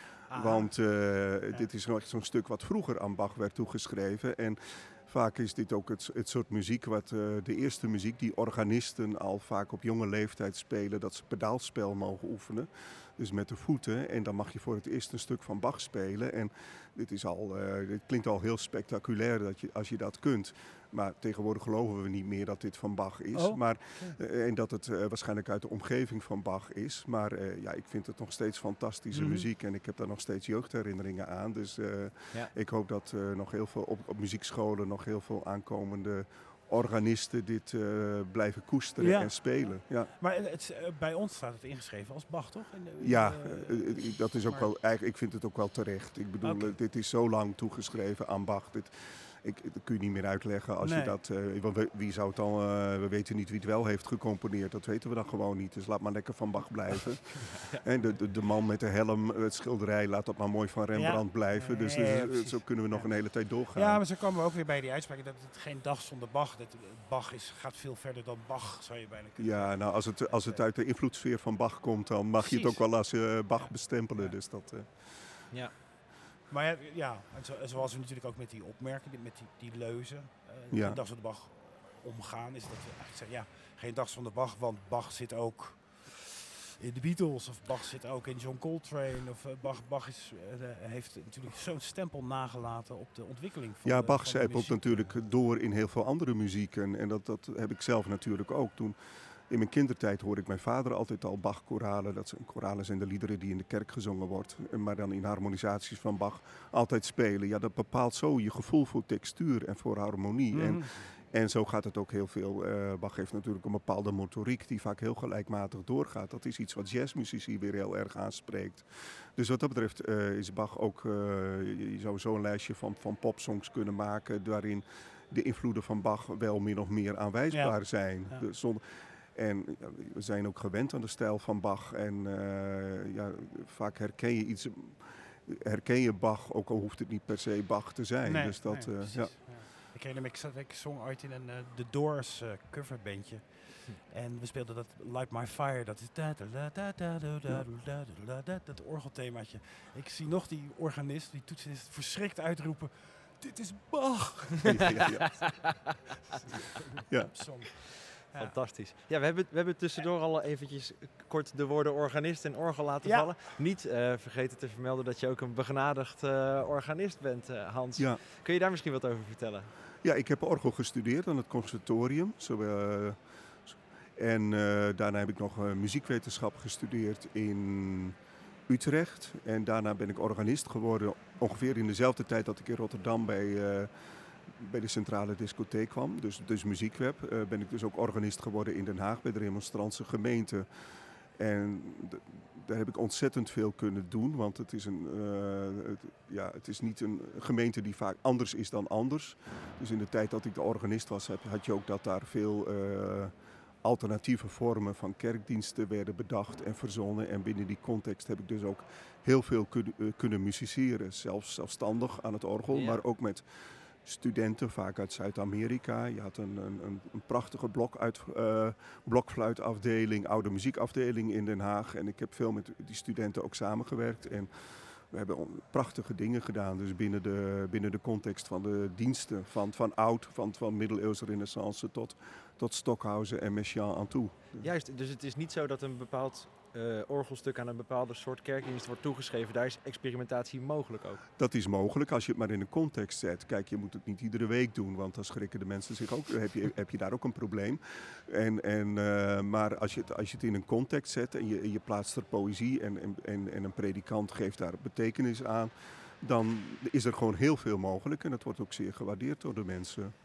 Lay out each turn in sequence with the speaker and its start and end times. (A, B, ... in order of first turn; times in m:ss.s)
0:00.3-0:00.7 A
0:00.3-0:40.1 B
0:23.3-0:24.2 A
0:29.1-0:29.5 A
0:39.0-0:44.7 A
0:43.0-1:04.0 B
0:46.4-0:46.8 A
0:50.8-0:51.2 A
0:57.3-0:57.8 C
1:00.9-1:03.1 A
1:03.7-1:10.6 A
1:09.4-1:15.2 B
1:12.4-1:13.0 A
1:13.6-1:14.4 A
1:16.5-1:26.3 A
1:20.7-1:21.0 B
1:26.8-1:35.2 A
1:33.8-1:39.0 B
1:39.5-2:19.5 B
1:50.5-1:51.0 A
2:07.5-2:07.8 A
2:18.2-2:35.0 A
2:34.7-2:35.4 B
2:35.0-2:35.9 C
2:36.3-2:38.6 A
2:37.1-2:37.3 B
2:38.2-2:49.7 C
2:43.0-2:43.3 A
2:50.0-2:58.2 B
2:58.7-3:03.9 B
3:04.4-3:10.7 B
3:11.4-3:54.7 B
3:32.7-3:33.0 C
3:54.6-4:01.2 C
4:01.4-4:20.1 B